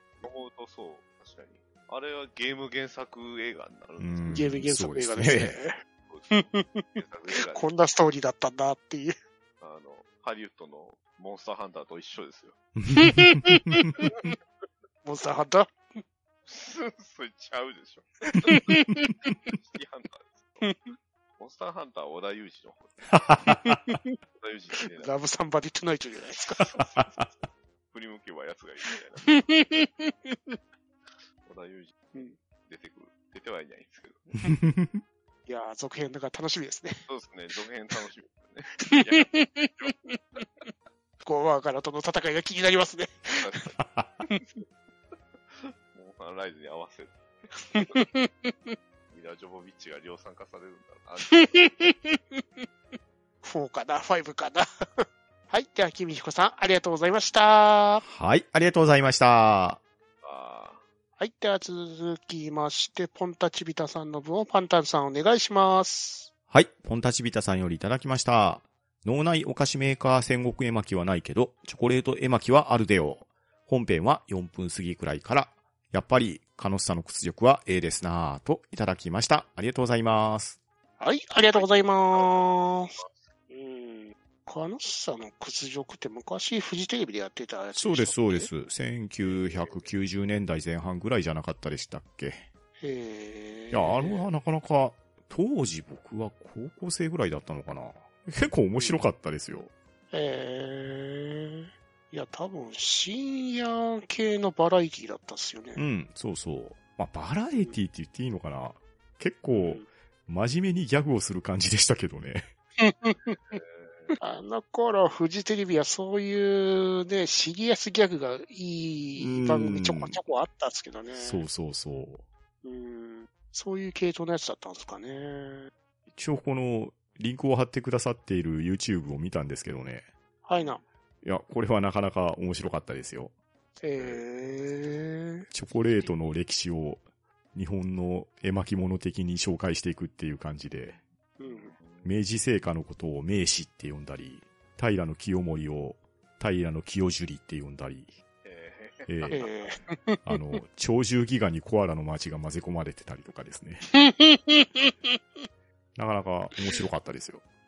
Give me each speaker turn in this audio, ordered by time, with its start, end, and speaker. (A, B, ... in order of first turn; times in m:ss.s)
0:00.2-0:04.6 A
0:04.0-0:05.6 B
0:04.3-0:05.8 C
0:06.1-0:07.7 A
0:06.3-0:09.2 C
0:09.6-0:12.6 A
0:12.8-0:14.3 B
0:12.9-0:14.3 C
0:15.0-0:16.0 C
0:16.5-0:18.7 A
0:18.3-0:19.2 C
0:19.5-0:20.7 A
0:20.6-0:20.9 C
0:21.4-0:23.1 A
0:23.1-0:24.0 B
0:23.6-0:24.1 C
0:24.4-0:25.1 A
0:25.0-0:26.7 C
0:26.5-0:30.0 A
0:29.2-0:30.6 C
0:31.4-0:34.3 A
0:34.4-0:35.0 B
0:35.5-0:37.1 C
0:37.1-0:39.9 A
0:38.8-0:40.4 C
0:41.2-0:43.6 C
0:43.3-0:43.8 A
0:43.8-0:44.1 B
0:45.4-0:48.1 A
0:47.7-0:48.8 C
0:49.1-0:51.9 A
0:51.2-0:52.7 C
0:53.4-0:58.0 C
0:58.0-0:59.8 B
1:00.2-1:00.8 A
1:01.2-1:06.3 C
1:06.5-1:20.6 B
1:21.0-1:23.0 C
1:21.5-1:23.3 A
1:23.5-1:28.5 C
1:27.8-1:32.5 B
1:29.2-1:30.0 A
1:32.8-1:34.3 C
1:33.7-1:39.7 B
1:38.8-1:39.0 C
1:40.1-1:45.8 C
1:45.8-1:52.5 B
1:49.5-1:49.8 C
1:52.8-1:53.6 C
1:53.5-1:54.2 A
1:54.2-2:01.4 C
1:59.2-2:00.2 B
2:01.2-2:02.2 B
2:02.6-2:05.7 C
2:06.1-2:10.1 B
2:10.4-2:10.8 C
2:11.2-2:13.3 B
2:13.8-2:15.5 C
2:14.0-2:14.2 A
2:15.5-2:21.0 B
2:15.7-2:16.2 A
2:21.4-2:21.7 C
2:21.4-2:22.2 A
2:22.0-2:28.2 B
2:28.4-2:29.8 A
2:29.1-2:29.4 B
2:29.3-2:30.4 C
2:30.3-2:33.8 B
2:33.9-2:35.2 C
2:36.0-2:37.4 B